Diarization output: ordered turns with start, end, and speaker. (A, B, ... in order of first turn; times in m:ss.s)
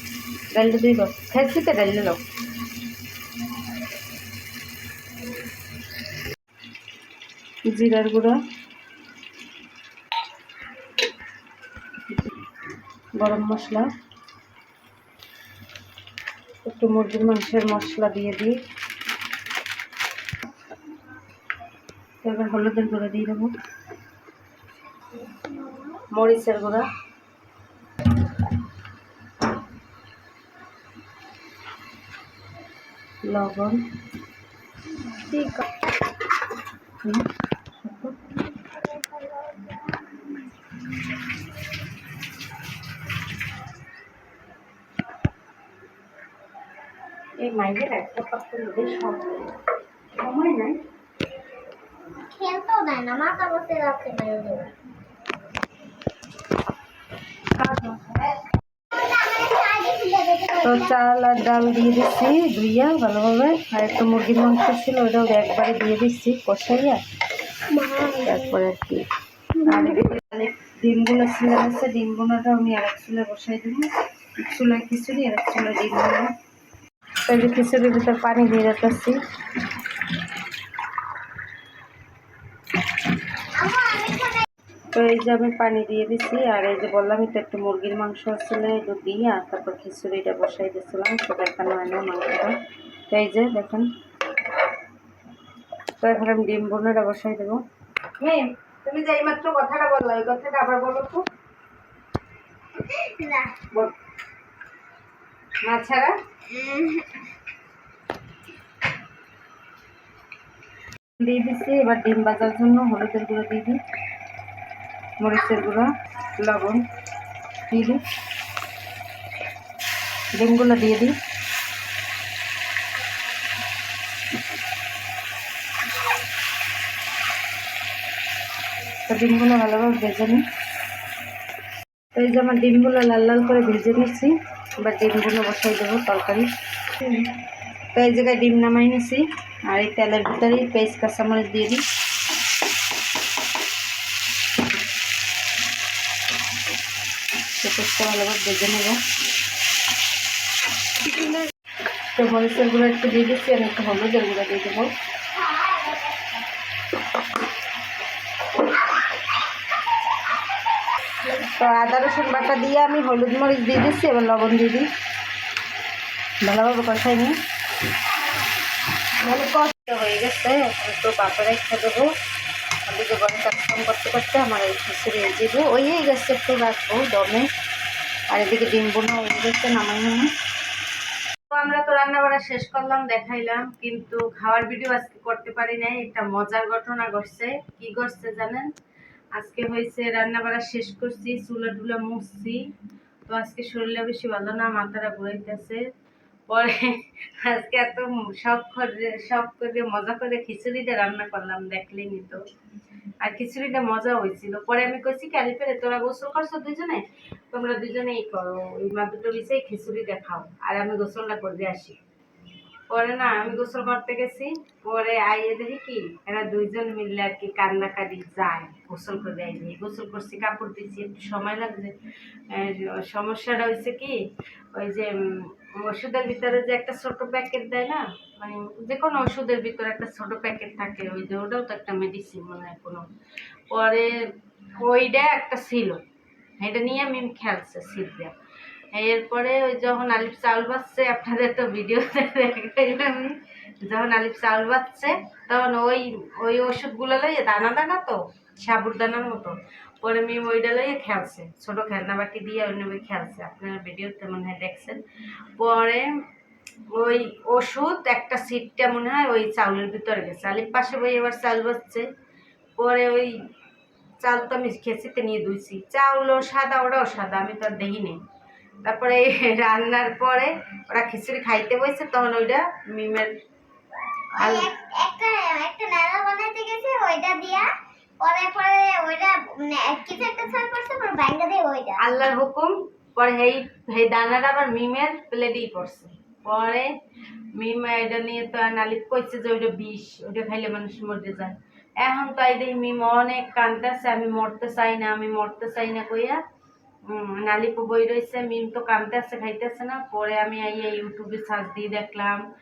0:00.5-0:02.2 A
0:07.7-0:08.4 A
0:13.2-0:13.9 A
0:16.6-0:18.6 A
0:22.2-0:23.5 A
0:25.2-0:26.0 B
0:26.1-0:26.9 A
0:33.3-0:33.8 A
0:37.8-0:38.4 A
0:47.4-0:49.6 A
0:50.2-0:50.8 A
0:52.1-0:54.7 B
0:57.6-0:58.3 A
0:58.9-1:00.9 B
1:00.6-1:07.0 A
1:07.7-1:08.4 B
1:08.2-1:09.1 A
1:09.6-1:16.3 A
1:17.3-1:19.2 A
1:23.6-1:24.5 B
1:24.9-1:32.6 A
1:33.1-1:33.9 A
1:36.0-1:37.6 A
1:38.2-1:41.3 A
1:42.8-1:43.6 B
1:45.6-1:46.2 A
1:46.5-1:47.2 B
1:51.2-1:53.8 A
1:55.2-1:56.8 A
1:57.7-1:58.0 A
2:00.4-2:01.2 A
2:09.1-2:10.4 A
2:12.2-2:17.3 A
2:17.9-2:21.8 A
2:27.6-2:29.0 A
2:32.1-2:35.0 A
2:35.4-2:36.4 B
2:41.2-2:44.9 A
2:46.4-2:47.4 A
2:49.2-2:52.1 A
2:52.8-2:57.5 A
2:58.3-3:00.3 A
3:01.5-3:08.7 A
3:09.4-3:12.6 A
3:13.3-3:15.8 A
3:16.5-3:22.4 A
3:23.2-3:32.0 A
3:32.9-3:41.9 A
3:42.5-3:44.2 A
3:44.7-3:53.1 A
3:53.7-3:56.0 A
3:56.6-3:58.4 A
3:58.9-4:15.0 A
4:15.6-4:16.1 A
4:16.9-4:22.1 A
4:22.8-4:23.4 A
4:24.2-4:28.2 A
4:28.8-4:33.3 A
4:34.4-4:34.7 A
4:34.4-4:37.7 B
4:38.2-4:42.1 B
4:42.0-4:46.9 A
4:47.6-4:56.4 A
4:57.1-5:02.4 A